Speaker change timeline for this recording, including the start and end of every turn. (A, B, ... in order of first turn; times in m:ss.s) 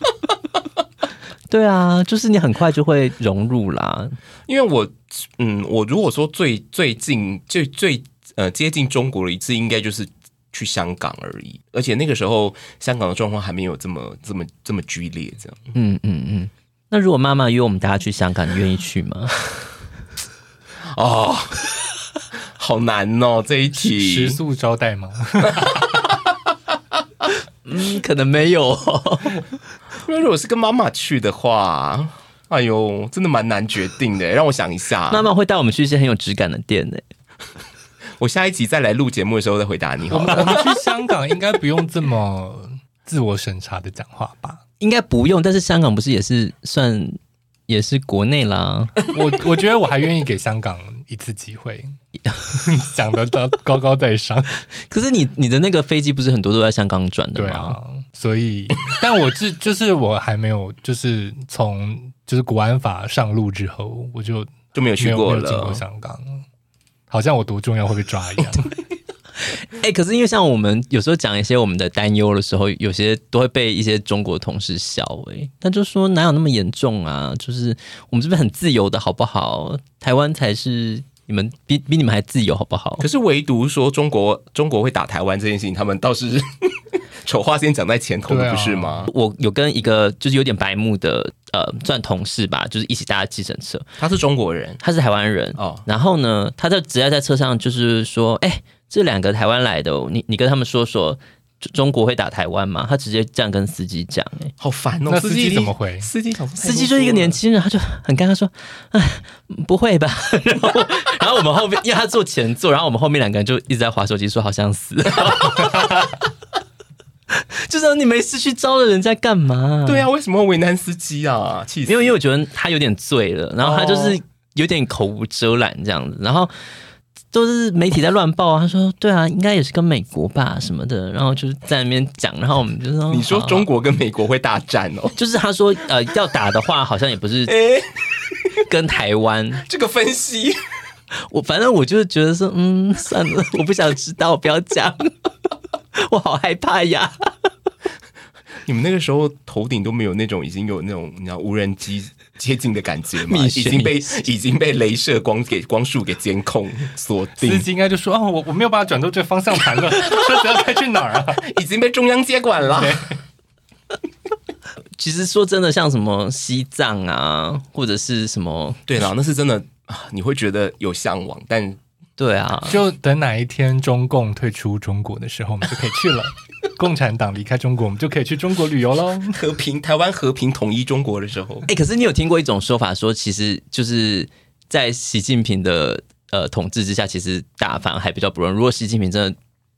0:01.5-0:04.2 A
0:04.5-0:15.6 B
0:15.7-0:19.4 A
0:20.9-0:21.7 B
0:22.3-0:24.4 B
0:23.7-0:26.1 C
0:25.5-0:26.3 B
0:27.6-0:29.4 A
0:30.0-0:35.3 B
0:35.1-0:37.0 A
0:38.2-0:40.8 B
0:40.1-0:44.6 C
0:44.8-0:49.0 A
0:49.1-0:51.9 C
0:52.5-0:54.6 C
0:54.9-0:57.8 A
0:57.4-1:06.4 C
1:04.7-1:05.8 B
1:07.1-1:08.7 C
1:09.5-1:23.0 A
1:23.0-1:29.1 B
1:28.3-1:29.0 C
1:29.1-1:33.8 A
1:34.0-1:34.8 B
1:34.8-1:44.5 A
1:35.6-1:35.8 B
1:44.6-1:47.4 B
1:45.1-1:46.1 C
1:46.6-1:56.2 A
1:57.3-2:00.1 A
1:59.8-2:02.2 B
2:01.9-2:06.5 A
2:03.6-2:04.2 B
2:07.3-2:13.7 A
2:13.1-2:15.2 B
2:15.2-2:17.6 A
2:17.5-2:17.9 B
2:18.6-2:19.6 A
2:19.6-2:20.6 B
2:21.2-2:25.1 A
2:26.0-2:27.2 A
2:28.6-2:37.7 B
2:33.3-2:34.2 A
2:37.4-2:41.5 C
2:41.4-2:43.1 B
2:42.6-2:43.2 C
2:45.0-2:48.8 A
2:48.9-2:51.8 B
2:52.2-2:52.8 A
2:52.6-2:59.4 C
2:59.3-3:01.7 B
3:01.7-3:09.3 A